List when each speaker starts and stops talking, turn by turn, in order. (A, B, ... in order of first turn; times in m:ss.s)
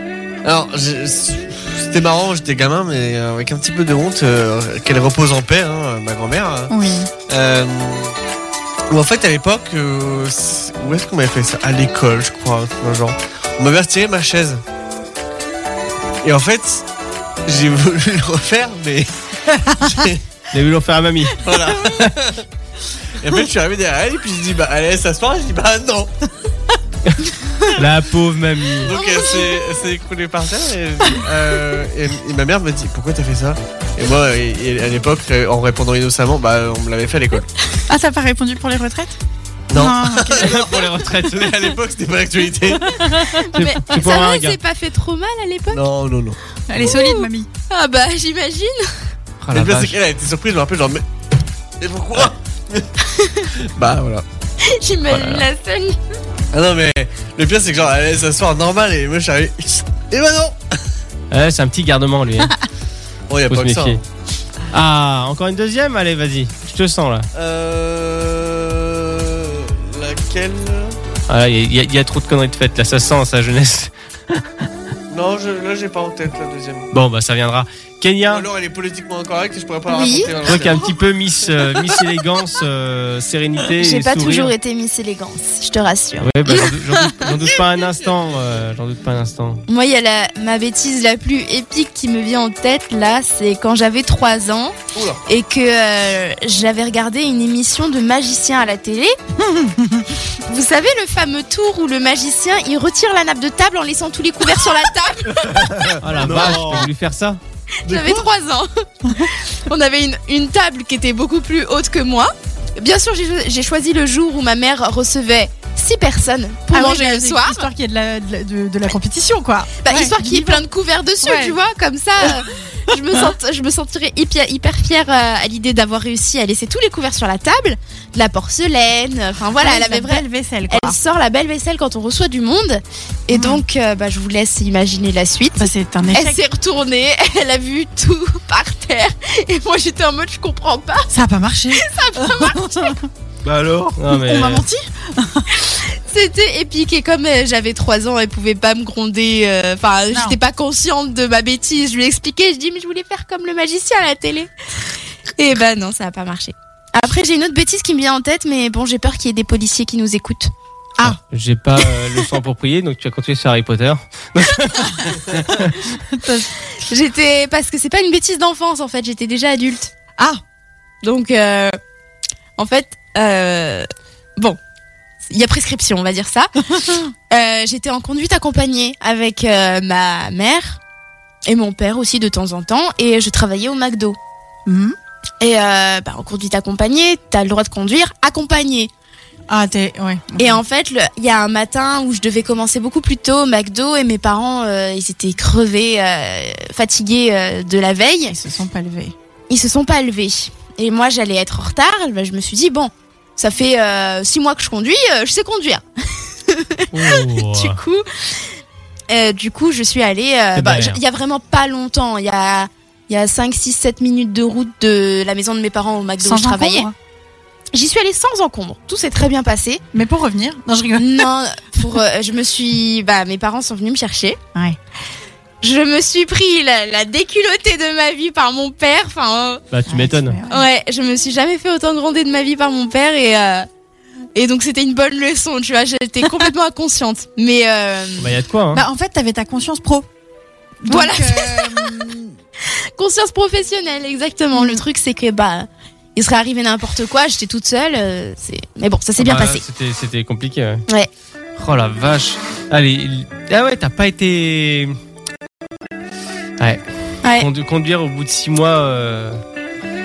0:00.4-0:06.7 A
0:06.7-0:07.1 B
0:07.3-0:08.1 A
0:08.9-0:14.6 A
0:16.2-0:16.8 A
0:17.4-0:19.1 A
0:19.9-0:20.2 A
0:20.5-0:21.4 C
0:21.4-0:22.4 A
0:23.2-0:26.1 A
0:27.7-0:28.9 C
0:28.8-0:37.5 A
0:28.9-0:29.7 D
0:37.9-0:39.1 B
0:39.7-0:43.0 A
0:39.7-0:40.5 B
0:40.4-0:41.7 C
0:42.9-0:44.6 C
0:43.4-0:45.8 D
0:45.7-0:46.4 A
0:46.7-0:47.5 B
0:46.8-0:48.9 D
0:49.4-0:50.0 C
0:49.5-0:51.0 A
0:51.8-0:52.9 A
0:53.1-0:53.5 D
0:53.7-0:54.2 A
0:54.6-0:56.0 D
0:55.1-0:55.4 C
0:56.5-1:00.6 A
1:01.3-1:02.5 C
1:03.3-1:04.0 A
1:03.5-1:04.0 C
1:04.7-1:07.3 C
1:07.3-1:11.0 A
1:11.3-1:14.4 C
1:15.1-1:16.9 A
1:16.9-1:18.4 C
1:18.3-1:20.9 A
1:19.9-1:20.6 D
1:20.4-1:24.5 C
1:23.8-1:27.2 D
1:26.2-1:29.6 C
1:29.7-1:39.2 D
1:34.9-1:35.2 A
1:39.5-1:40.0 B
1:40.4-1:45.9 D
1:45.5-1:46.9 E
1:46.0-1:47.4 C
1:47.8-1:57.7 D
1:47.9-1:48.2 A
1:56.7-2:00.6 B
1:59.8-2:21.1 D
2:01.2-2:01.6 B
2:09.6-2:11.0 B
2:13.3-2:13.6 B
2:15.6-2:16.4 B
2:21.1-2:23.0 B
2:21.7-2:22.9 D
2:23.4-2:24.0 E
2:24.0-2:24.6 C
2:24.1-2:25.4 B
2:25.7-2:34.5 D
2:30.1-2:30.4 B
2:35.4-2:40.5 D
2:41.0-2:45.8 C
2:46.1-2:46.5 B
2:46.9-2:49.9 D
2:51.0-2:51.8 D
2:52.6-2:54.6 D
2:55.2-2:56.5 D
2:57.3-3:00.8 D
3:01.4-3:04.2 D
3:04.6-3:05.0 B
3:05.4-3:08.9 D
3:09.5-3:10.6 B
3:10.4-3:18.3 D
3:18.3-3:19.1 B
3:19.5-3:28.0 D
3:26.9-3:27.8 C
3:29.1-3:36.9 D
3:30.5-3:31.0 C
3:36.2-3:36.9 B
3:37.7-3:39.8 D
3:39.9-3:41.3 B
3:41.0-3:44.4 D
3:45.6-3:49.6 D
3:49.7-3:50.4 C
3:49.9-3:50.6 B
3:50.5-3:53.7 D
3:54.4-3:58.3 D
3:58.2-3:58.8 C
3:58.7-4:00.1 B
4:00.8-4:02.3 B
4:00.9-4:01.9 D
4:03.0-4:09.6 D
4:04.6-4:04.8 B
4:09.2-4:10.8 C
4:11.6-4:14.9 C
4:16.6-4:19.4 C